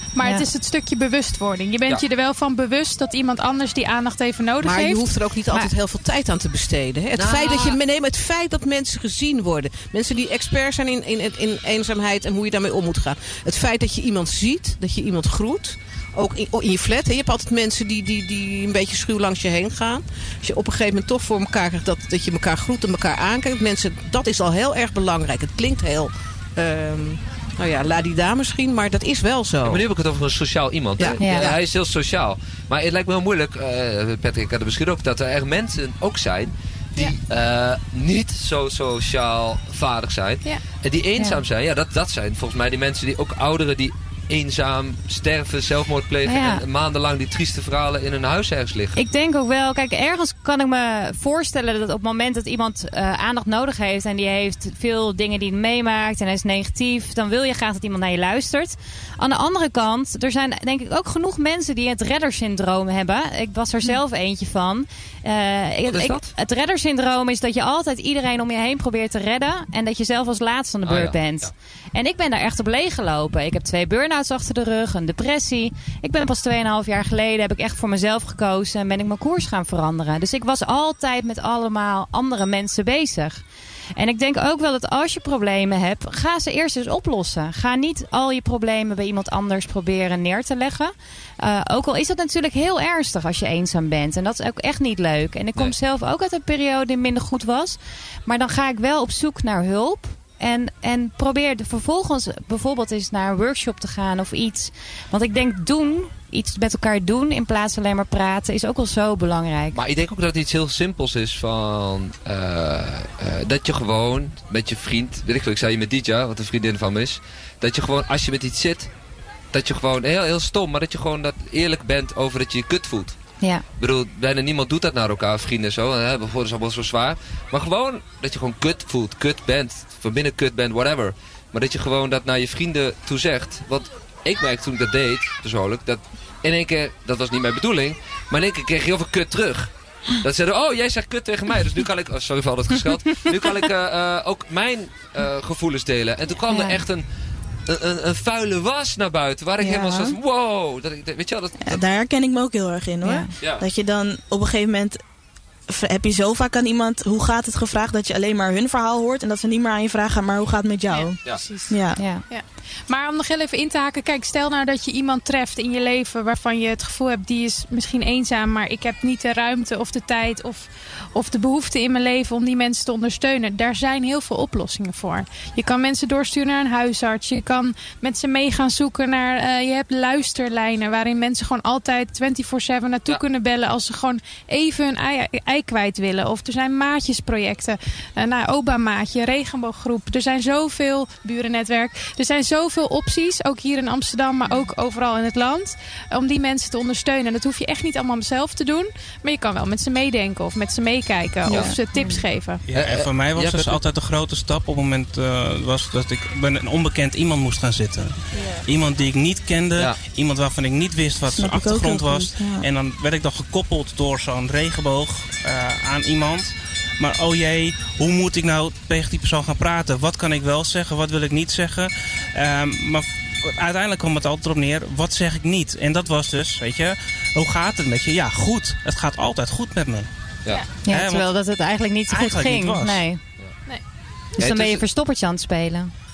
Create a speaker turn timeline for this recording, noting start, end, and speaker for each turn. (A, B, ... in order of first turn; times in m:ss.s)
0:00.1-0:05.1 A
0:04.6-0:29.8 B
0:07.1-0:07.8 C
0:29.6-0:49.0 C
0:31.0-0:31.6 B
0:31.2-0:31.5 D
0:46.3-0:46.6 D
0:49.0-1:23.4 D
1:05.9-1:06.3 C
1:10.9-1:11.5 C
1:24.0-1:49.8 D
1:49.7-1:58.9 C
1:59.5-2:03.2 C
2:03.8-2:27.1 C
2:26.5-2:26.8 D
2:27.7-2:31.8 C
2:29.6-2:30.2 E
2:31.6-2:35.0 E
2:33.0-2:33.3 D
2:33.4-2:33.6 C
2:35.7-2:42.0 E
2:40.9-3:22.6 A
2:42.0-2:42.2 D
3:21.4-3:21.8 E
3:21.5-3:21.8 C
3:22.0-3:22.2 D
3:22.7-3:50.1 F
3:22.7-3:23.8 C
3:28.4-3:28.6 E
3:31.4-3:32.7 E
3:50.8-3:53.2 D
3:50.9-3:51.3 F
3:52.1-3:53.1 F
3:54.4-3:55.9 D
3:54.4-3:54.8 C